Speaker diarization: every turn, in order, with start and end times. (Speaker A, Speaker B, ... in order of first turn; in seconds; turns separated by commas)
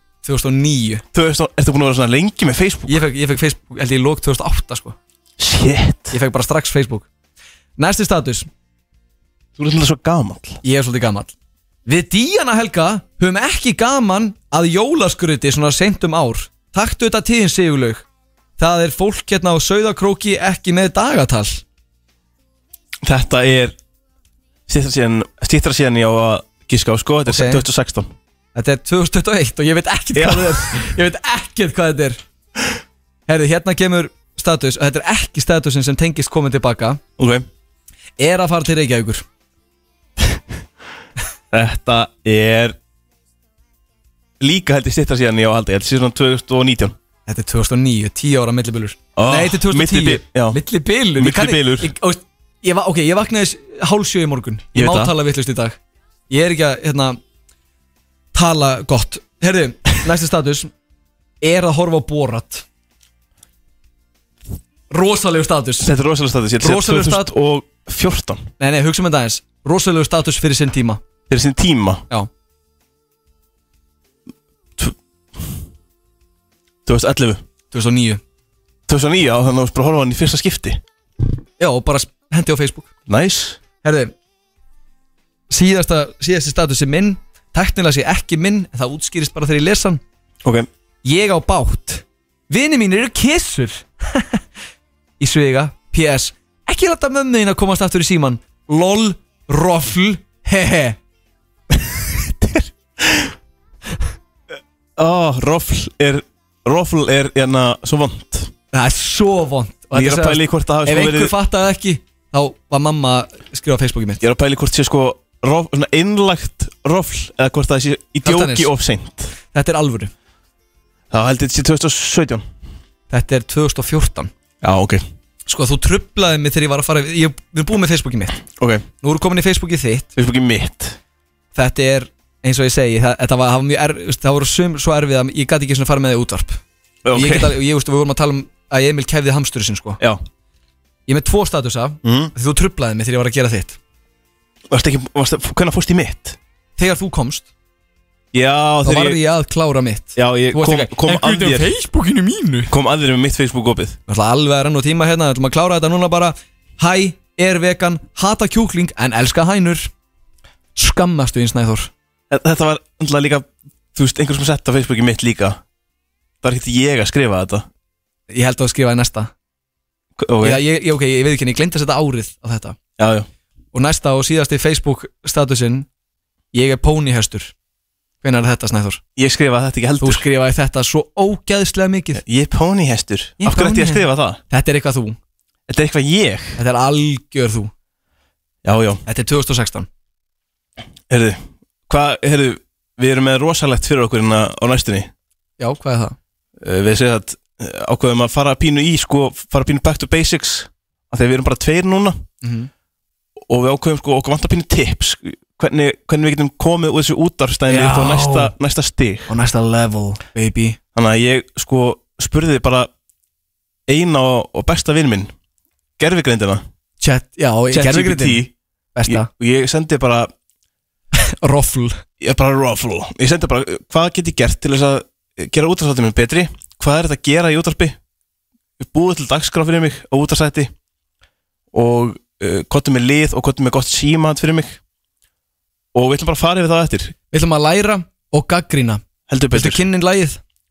Speaker A: 0.2-1.0, Speaker B: 1.1-3.0, Speaker A: 2.9-5.0, Speaker B: 5.4-6.2, Speaker A: 6.1-7.1, Speaker A: 7.8-8.5, Speaker B: 9.6-10.6, Speaker A: 10.6-11.3, Speaker A: 11.9-18.0, Speaker A: 18.6-21.6, Speaker B: 23.0-23.8, Speaker B: 24.7-28.1, Speaker A: 27.3-27.6, Speaker A: 28.6-32.2, Speaker B: 30.1-30.9, Speaker A: 33.3-37.0, Speaker B: 37.2-37.5, Speaker A: 38.2-39.2, Speaker B: 41.5-42.8, Speaker B: 44.4-47.0, Speaker A: 47.3-55.8, Speaker B: 49.2-50.6, Speaker B: 51.1-51.9, Speaker B: 54.7-55.1, Speaker A: 56.3-57.2, Speaker A: 58.3-60.7, Speaker A: 61.4-62.6, Speaker A: 64.9-65.9, Speaker B: 65.8-68.5, Speaker A: 66.6-67.3, Speaker A: 68.6-71.0, Speaker B: 71.3-72.0, Speaker B: 74.8-75.5, Speaker B: 76.9-77.4, Speaker A: 77.7-78.2, Speaker B: 78.9-80.8, Speaker A: 81.6-82.9, Speaker B: 83.1-83.6, Speaker A: 83.8-84.1, Speaker A: 85.5-90.0, Speaker A: 91.0-94.4, Speaker A: 95.2-101.0, Speaker B: 101.7-103.3, Speaker B: 105.0-108.5, Speaker A: 108.7-114.2, Speaker B: 109.9-111.3, Speaker B: 114.2-119.3, Speaker A: 118.2-118.7, Speaker A: 119.5-120.1, Speaker B: 121.1-122.5, Speaker A: 123.1-124.3, Speaker B: 124.6-125.0, Speaker A: 125.5-128.4, Speaker B: 128.6-128.8, Speaker A: 129.0-130.1, Speaker B: 130.2-131.0, Speaker A: 131.6-136.6, Speaker B: 137.0-137.6, Speaker A: 137.1-140.0, Speaker A: 141.1-143.8, Speaker B: 142.0-142.3, Speaker B: 144.7-146.4, Speaker A: 146.8-147.5, Speaker B: 148.3-149.2, Speaker A: 148.8-152.7, Speaker B: 150.2-151.7, Speaker B: 152.7-154.0, Speaker A: 154.1-159.9, Speaker A: 160.8-161.9, Speaker B: 162.3-165.6, Speaker B: 166.4-167.7, Speaker A: 168.3-169.3, Speaker B: 170.2-170.6, Speaker A: 170.4-172.8, Speaker B: 173.0-173.3, Speaker A: 173.7-175.9, Speaker A: 176.5-177.5, Speaker A: 178.2-179.0, Speaker B: 179.2-180.2, Speaker A: 180.0-182.2, Speaker B: 182.2-184.4, Speaker A: 183.4-185.2, Speaker B: 185.7-186.6, Speaker A: 186.6-187.7, Speaker B: 188.6-189.0, Speaker A: 189.1-189.9, Speaker B: 191.1-195.1, Speaker A: 195.6-196.2, Speaker B: 196.6-202.2, Speaker A: 202.4-202.7, Speaker B: 203.4-209.3, Speaker A: 207.7-208.5, Speaker A: 209.3-210.8, Speaker B: 210.9-212.9, Speaker B: 213.9-215.3, Speaker B: 216.0-216.7, Speaker A: 217.0-218.4, Speaker B: 217.7-218.5, Speaker A: 218.9-219.3, Speaker B: 219.1-220.3, Speaker A: 221.2-222.0, Speaker B: 222.2-228.0, Speaker B: 228.8-230.7, Speaker B: 231.7-234.8, Speaker B: 235.9-237.2, Speaker A: 237.3-240.4, Speaker B: 239.3-239.8